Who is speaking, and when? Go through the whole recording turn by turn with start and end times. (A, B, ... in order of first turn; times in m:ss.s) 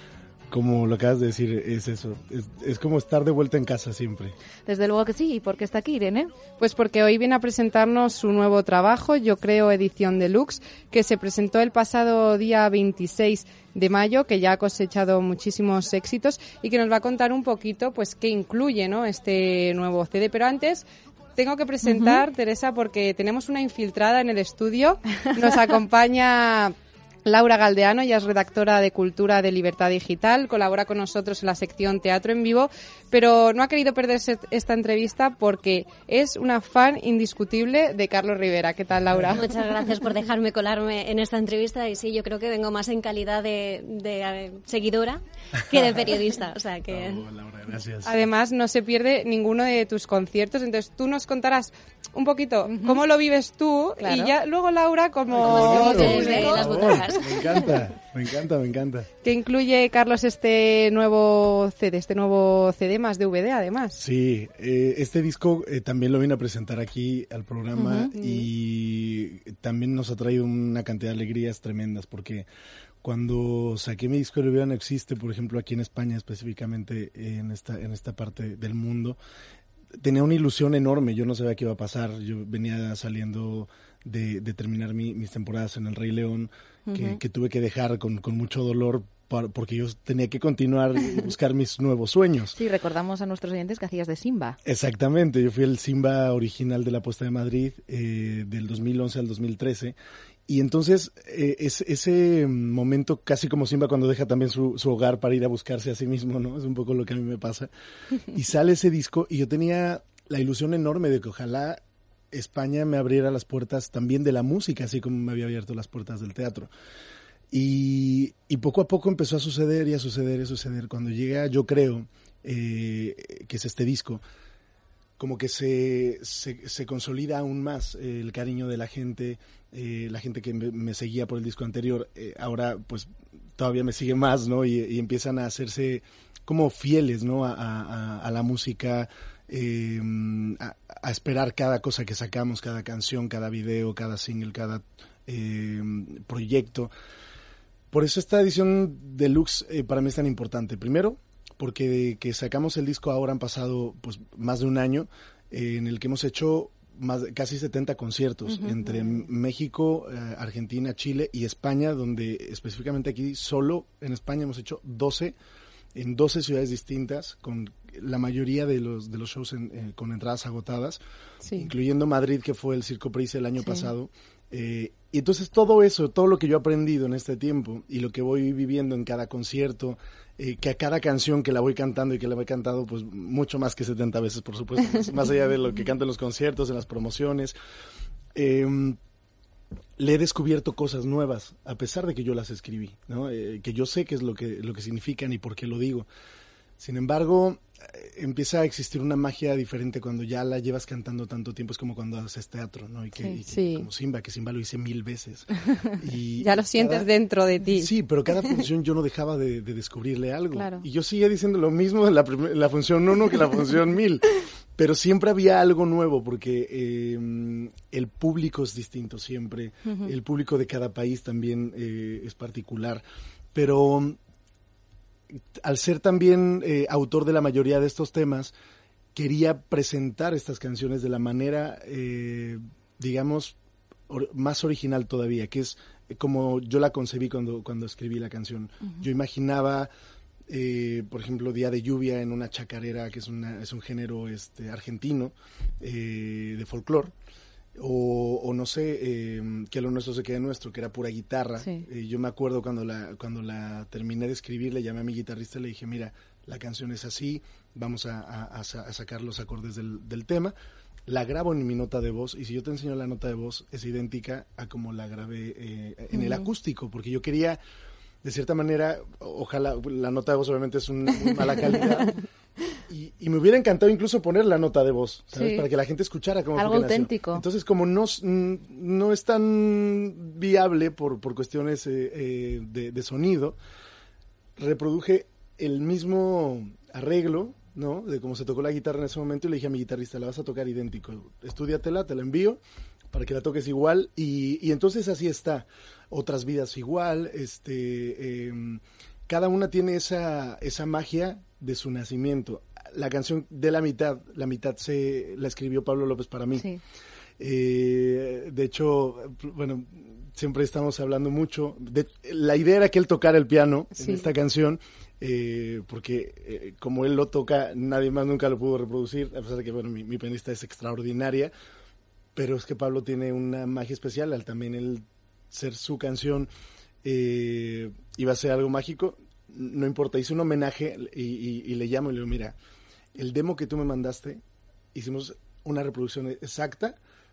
0:00.5-0:04.4 A
0:04.7-0:06.3 B
0:06.6-0:20.8 C
0:21.4-0:39.6 C
0:21.8-0:22.2 B
0:39.3-0:47.2 D
0:45.8-0:46.0 A
0:46.9-0:48.2 A
0:48.0-0:56.7 C
0:52.7-0:53.0 B
0:54.0-0:54.4 B
0:55.4-0:59.1 A
0:55.4-0:57.9 D
0:55.7-0:56.5 B
0:59.2-1:04.0 C
1:04.0-1:12.5 A
1:07.8-1:08.1 B
1:08.2-1:08.4 C
1:13.0-1:19.2 A
1:20.0-1:32.6 A
1:26.9-1:27.2 B
1:32.6-1:34.6 B
1:34.6-1:40.0 A
1:40.5-1:47.7 A
1:48.3-1:51.8 A
1:52.3-1:56.7 A
1:57.5-2:04.2 A
2:05.2-2:26.9 A
2:27.9-2:45.4 A
2:38.5-2:39.3 B
2:46.0-2:51.0 A
2:51.4-2:51.7 C
2:51.6-3:07.6 A
2:53.6-2:53.9 B
3:08.4-3:09.0 A
3:10.0-3:16.1 A
3:16.8-3:25.5 A
3:23.5-3:23.9 C
3:26.0-3:27.1 A
3:26.4-3:27.9 C
3:27.8-3:34.2 A
3:30.5-3:30.8 B
3:34.8-3:43.0 A
3:39.9-3:40.1 B
3:43.5-3:44.2 A
3:45.3-3:48.5 A
3:49.2-3:53.6 A
3:54.1-3:59.9 A
4:00.5-4:07.1 A
4:07.8-4:20.5 A
4:21.1-4:27.6 A
4:26.1-4:26.5 B
4:28.2-4:32.2 A
4:32.9-4:43.6 A
4:35.3-4:35.6 B
4:36.6-4:37.4 B
4:44.6-4:52.6 A
4:53.1-5:06.7 A
5:07.4-5:21.5 A
5:14.0-5:14.2 C
5:22.4-5:26.5 A
5:27.0-5:32.6 A
5:33.2-5:34.4 A
5:34.9-5:37.0 A